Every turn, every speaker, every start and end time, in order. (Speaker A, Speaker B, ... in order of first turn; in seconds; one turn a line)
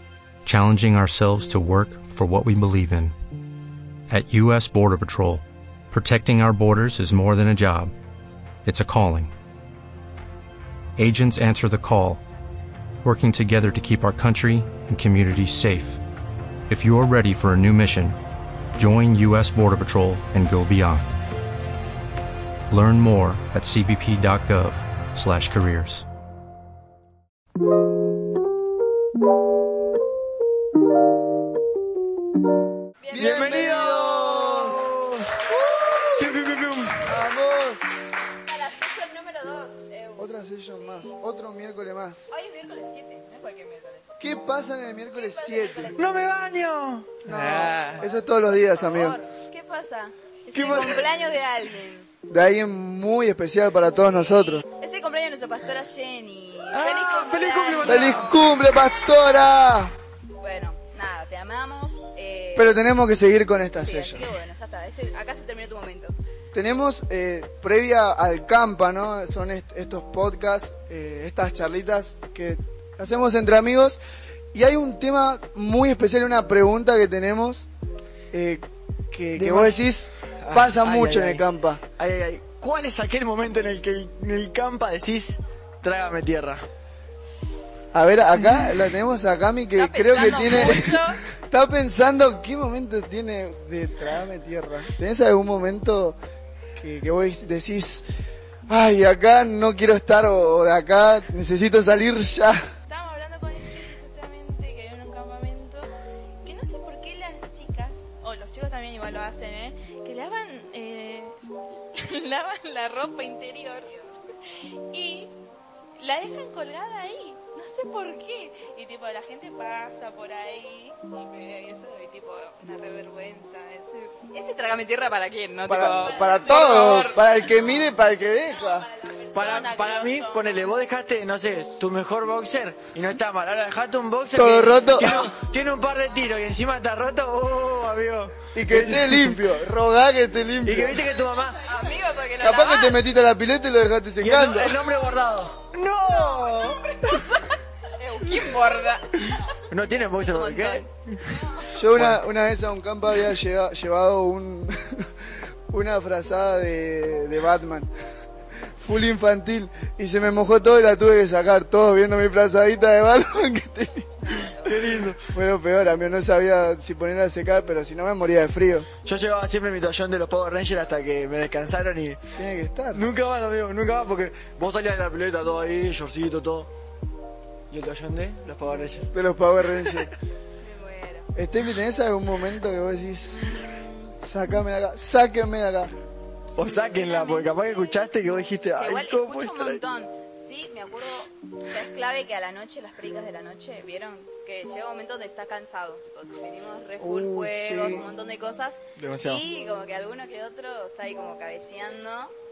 Speaker A: 0.4-3.1
Speaker A: 4.1-7.9
Speaker A: 8.6-9.3
Speaker A: 11.0-12.2
Speaker A: 13.0-16.0
Speaker A: 16.7-18.2
Speaker A: 18.7-21.1
Speaker A: 22.7-26.1
Speaker B: 33.0-34.8
Speaker C: 33.1-34.9
Speaker D: 33.1-35.2
Speaker C: 35.7-36.3
Speaker D: 36.0-37.1
Speaker C: 37.0-37.8
Speaker B: 38.4-41.1
Speaker C: 40.2-42.4
Speaker B: 42.3-44.2
Speaker C: 44.2-45.9
Speaker B: 45.1-46.3
Speaker D: 46.0-48.0
Speaker C: 47.2-49.2
Speaker B: 48.0-52.1
Speaker D: 50.5-51.0
Speaker C: 52.3-54.6
Speaker B: 53.9-58.4
Speaker D: 56.7-58.5
Speaker C: 57.8-59.9
Speaker B: 60.4-62.8
Speaker C: 62.5-64.3
Speaker B: 63.8-66.2
Speaker C: 66.5-74.0
Speaker C: 74.5-77.7
Speaker C: 78.3-81.8
Speaker D: 79.3-81.5
Speaker D: 82.0-86.7
Speaker C: 87.9-96.2
Speaker B: 89.7-91.2
Speaker C: 96.7-98.0
Speaker C: 98.7-102.6
Speaker E: 102.9-111.4
Speaker E: 111.9-113.9
Speaker E: 114.6-115.3
Speaker E: 116.0-124.2
Speaker B: 124.3-127.1
Speaker C: 125.7-128.9
Speaker E: 126.5-127.0
Speaker E: 129.1-130.6
Speaker D: 129.3-139.4
Speaker C: 134.3-135.3
Speaker C: 138.5-141.1
Speaker D: 140.6-141.6
Speaker B: 141.6-143.0
Speaker C: 142.4-145.0
Speaker D: 144.2-147.4
Speaker B: 146.3-147.2
Speaker B: 147.9-149.4
Speaker D: 149.7-152.2
Speaker B: 150.1-150.9
Speaker C: 151.6-154.7
Speaker C: 155.7-157.9
Speaker C: 158.8-164.3
Speaker B: 164.2-164.7
Speaker D: 164.6-165.2
Speaker C: 165.3-168.9
Speaker D: 169.0-172.2
Speaker C: 172.3-173.1
Speaker D: 172.9-176.7
Speaker D: 177.7-179.1
Speaker C: 179.1-180.1
Speaker B: 180.6-181.3
Speaker C: 181.3-183.6
Speaker C: 184.2-185.9
Speaker D: 186.6-189.8
Speaker B: 186.6-187.6
Speaker B: 188.7-202.3
Speaker C: 197.0-198.1
Speaker D: 199.0-199.4